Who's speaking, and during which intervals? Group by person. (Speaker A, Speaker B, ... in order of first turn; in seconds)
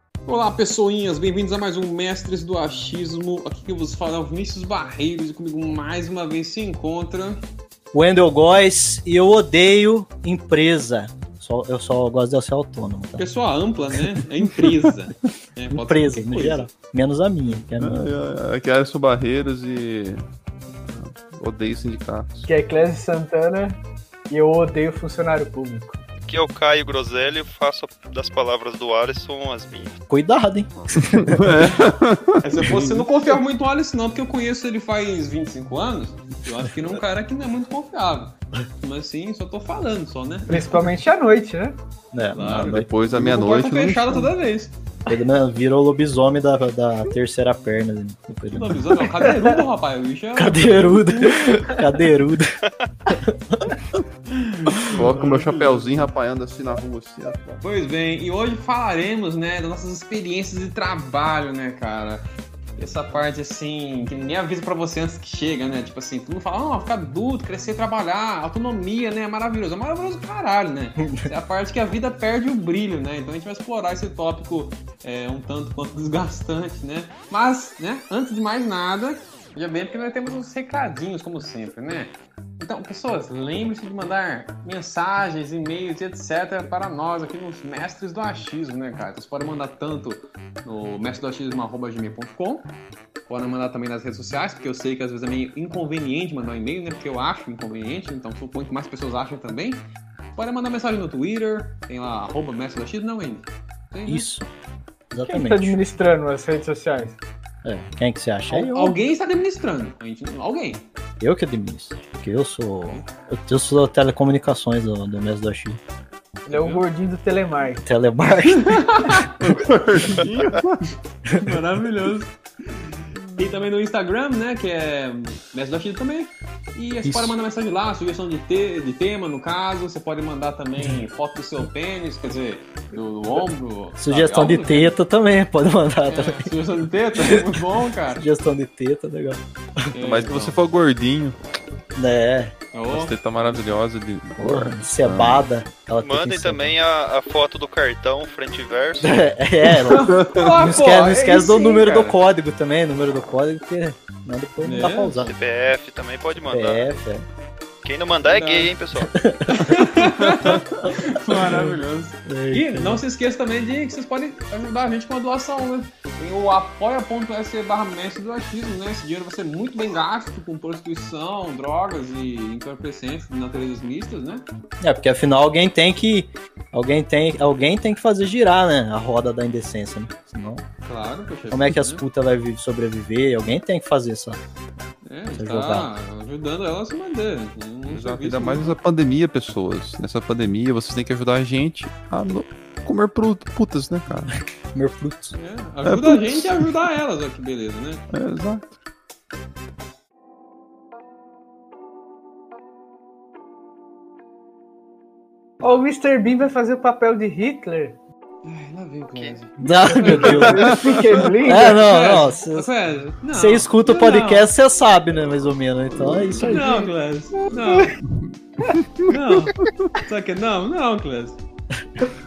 Speaker A: 0.3-7.4, 13.2-16.7, 32.4-40.8, 42.3-44.8, 48.5-51.7, 54.4-56.1, 57.6-62.2, 62.8-92.7, 93.3-99.8, 100.4-104.3, 108.5-110.8, 116.5-116.8, 118.6-119.3, 120.1-120.6, 121.4-122.4, 123.3-135.0, 136.1-138.2, 139.9-140.6, 142.7-143.2, 149.9-152.2, 154.6-155.3, 158.3-158.7, 159.5-174.4, 180.9-182.0, 185.0-188.8, 195.3-198.0, 208.4-214.5, 216.4-218.0, 219.1-221.4
Speaker B: 7.9-13.2, 15.7-18.1, 30.1-31.6, 42.1-42.9, 45.1-49.1, 50.4-53.8, 71.0-71.2, 104.1-104.5, 105.1-105.8, 107.6-109.0, 111.2-115.8, 117.8-119.1, 127.0-127.3, 134.0-136.5, 137.2-137.5, 138.2-139.9, 142.0-142.5, 144.4-146.8, 149.0-155.3, 156.5-157.3, 159.0-159.7, 160.4-161.1, 162.3-163.0, 174.8-180.6, 181.5-184.4, 185.3-185.9, 194.7-195.4, 209.6-210.8, 211.4-212.7, 213.3-216.7
Speaker C: 17.8-20.3, 20.9-22.5, 30.9-33.0, 42.6-44.2, 54.9-57.6, 119.4-120.8, 140.0-141.4, 142.9-145.5, 150.1-150.5, 187.9-194.3, 195.8-196.7, 198.1-198.7, 217.4-219.9
Speaker D: 22.5-23.8, 24.3-26.0, 40.5-41.8, 105.3-107.2, 116.5-117.8, 205.6-208.0, 210.1-211.8
Speaker E: 26.2-29.9, 146.0-149.3, 155.2-156.9, 157.8-159.1, 209.1-209.4